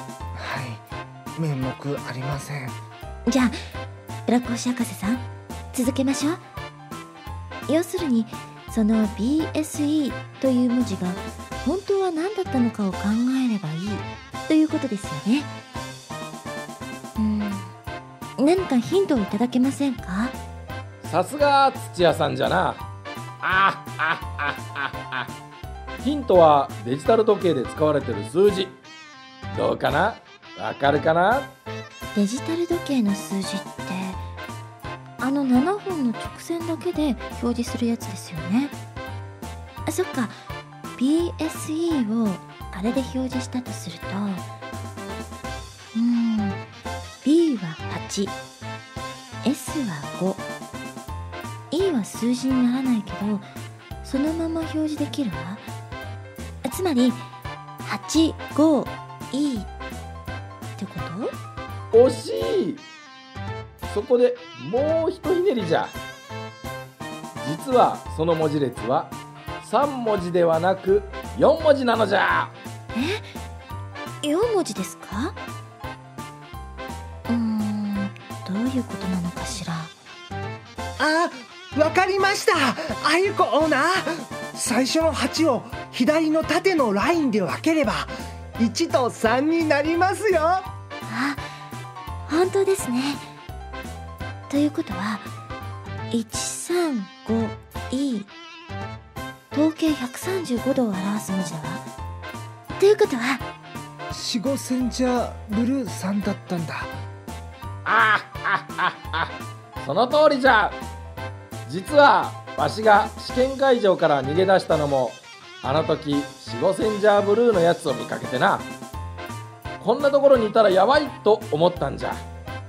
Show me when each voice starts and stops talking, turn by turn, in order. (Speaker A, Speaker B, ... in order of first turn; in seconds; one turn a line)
Speaker A: 0.3-0.8
Speaker A: 1.4-2.8
Speaker B: 3.3-3.6
Speaker B: 4.3-6.4
Speaker B: 7.7-15.5
Speaker B: 17.2-17.7
Speaker B: 18.4-20.4
Speaker C: 21.0-22.8
Speaker C: 23.4-25.3
Speaker C: 26.0-28.8
Speaker C: 29.5-31.5
Speaker B: 32.1-34.2
Speaker B: 35.2-38.7
Speaker B: 39.9-40.4
Speaker B: 41.0-44.5
Speaker B: 45.9-46.6
Speaker B: 47.2-48.3
Speaker B: 49.4-50.4
Speaker B: 51.7-53.5
Speaker B: 54.0-55.6
Speaker B: 56.6-57.2
Speaker B: 57.8-59.7
Speaker B: 60.8-61.4
Speaker C: 61.9-62.8
Speaker C: 63.9-65.9
Speaker C: 67.3-72.5
Speaker B: 72.9-73.3
Speaker B: 74.2-75.4
Speaker B: 77.3-79.9
Speaker A: 81.0-90.7
Speaker B: 91.0-91.5
Speaker B: 92.2-93.3
Speaker B: 94.5-95.3
Speaker B: 96.1-98.3
Speaker B: 99.5-101.8
Speaker B: 102.7-103.5
Speaker A: 104.1-107.0
Speaker C: 107.8-110.8
Speaker C: 111.6-118.7
Speaker C: 119.8-122.2